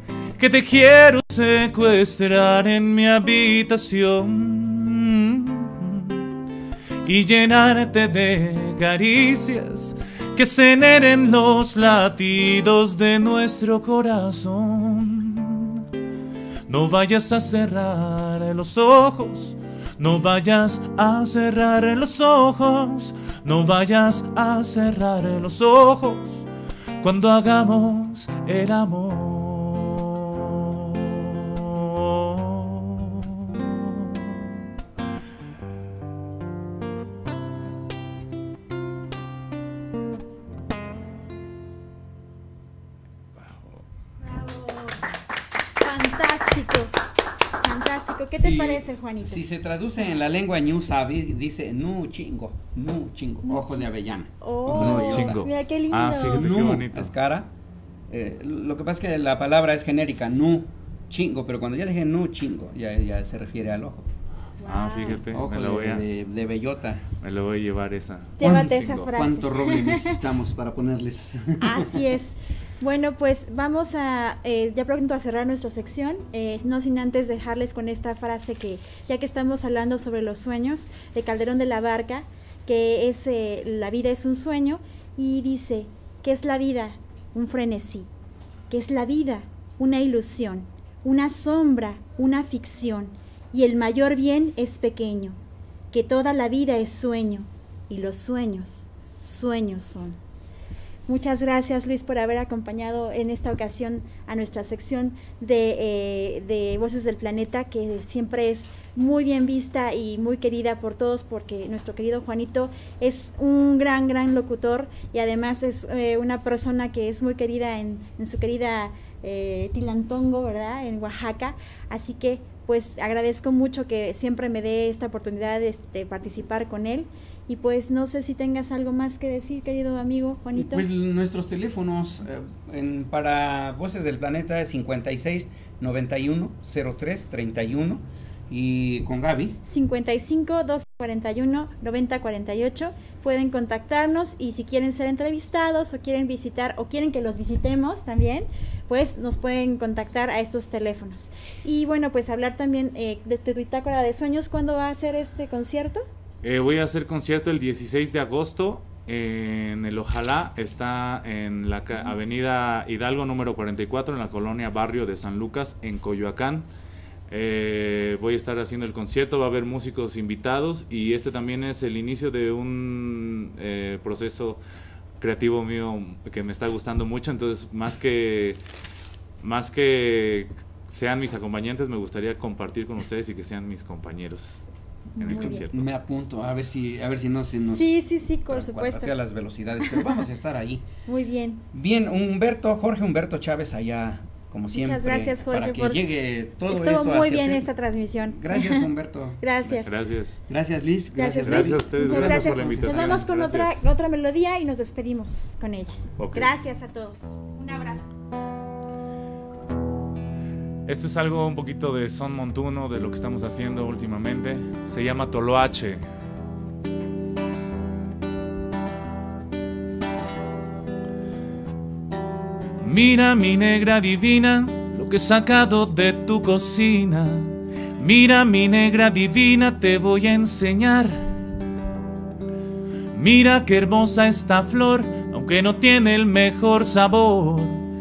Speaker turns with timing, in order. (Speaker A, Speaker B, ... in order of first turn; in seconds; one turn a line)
Speaker A: 0.4-6.2
Speaker A: 7.0-15.9
Speaker A: 16.7-26.4
Speaker A: 27.0-34.0
Speaker A: 43.4-43.8
Speaker B: 44.2-45.0
Speaker B: 45.8-46.9
Speaker B: 47.6-49.4
Speaker C: 48.3-55.4
Speaker B: 53.4-56.5
Speaker A: 54.7-57.1
Speaker C: 56.2-57.5
Speaker C: 58.1-64.0
Speaker B: 64.6-65.3
Speaker A: 64.6-66.0
Speaker C: 65.3-67.0
Speaker A: 67.2-69.0
Speaker B: 68.4-70.2
Speaker C: 68.4-72.0
Speaker B: 71.6-88.1
Speaker B: 88.7-95.4
Speaker B: 95.9-100.2
Speaker B: 101.1-130.9
Speaker C: 130.5-139.6
Speaker B: 139.6-156.0
Speaker A: 156.4-166.7
Speaker A: 167.3-174.6
Speaker A: 175.2-178.6
Speaker A: 179.4-184.7
Speaker B: 185.2-185.7
Speaker A: 185.2-185.9
Speaker C: 185.2-187.9
Speaker B: 187.7-189.1
Speaker C: 188.5-190.8
Speaker B: 191.1-191.6
Speaker C: 191.7-197.7
Speaker B: 194.7-196.1
Speaker B: 196.7-198.9
Speaker C: 198.3-199.9
Speaker B: 199.4-200.0
Speaker A: 199.8-200.4
Speaker C: 200.5-203.3
Speaker B: 201.1-208.1
Speaker A: 201.4-203.8
Speaker A: 206.2-206.5
Speaker A: 210.8-216.1
Speaker A: 222.8-231.2
Speaker A: 233.1-237.8